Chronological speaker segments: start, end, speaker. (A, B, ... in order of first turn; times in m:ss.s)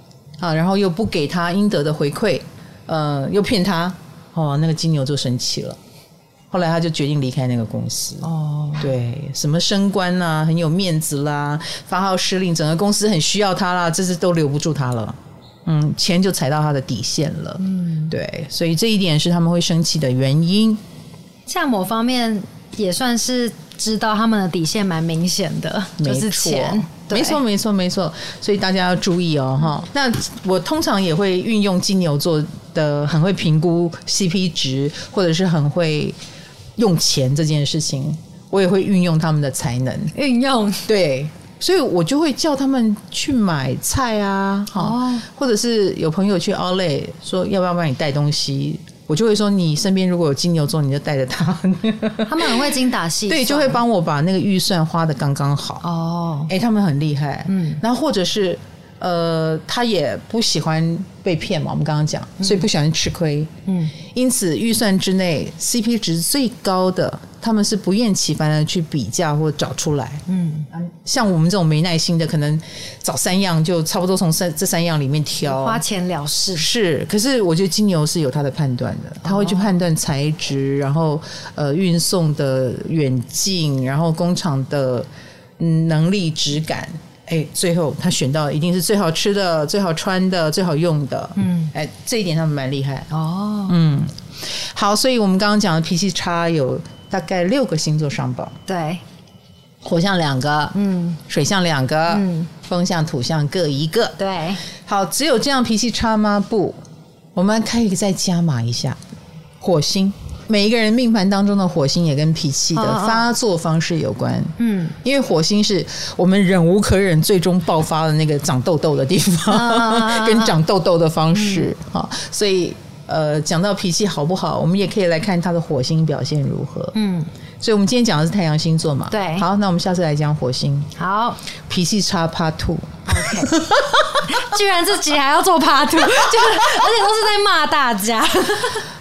0:00.4-0:05.8 A
0:06.5-0:20.8 A
0:08.2-0:08.9 B
0:17.6-0:18.1 B
0:21.4-0:27.4 B
0:26.0-0:36.2 A
0:36.8-0:40.1 A
0:40.1-0:40.9 B
0:40.9-0:52.6 A
0:44.8-0:45.2 B
0:52.3-0:53.8 B
0:53.3-0:55.8 A
0:55.8-0:56.5 B
0:56.5-1:03.5 A
0:57.5-0:57.8 B
1:03.6-1:03.9 B
1:04.1-1:15.8 A
1:10.3-1:10.7 B
1:15.4-1:16.7 B
1:16.6-1:25.1 A
1:19.2-1:19.7 B
1:25.6-1:33.1 A
1:31.4-1:31.7 B
1:33.1-1:33.7 B
1:33.7-1:38.5 A
1:38.7-1:39.0 B
1:39.8-1:40.8 A
1:40.7-1:41.2 B
1:41.3-1:44.2 A
1:42.1-1:42.5 B
1:44.2-1:44.6 B
1:44.8-1:46.8 A
1:47.3-1:49.0 A
1:49.6-2:06.9 A
1:52.7-1:53.3 B
1:54.6-1:55.0 B
1:59.5-2:00.6 B
2:01.3-2:01.7 B
2:06.9-2:07.3 B
2:07.6-2:10.9 A
2:09.1-2:09.4 B
2:11.0-2:11.4 B
2:11.6-2:14.3 A
2:13.1-2:13.5 B
2:14.3-2:18.9 B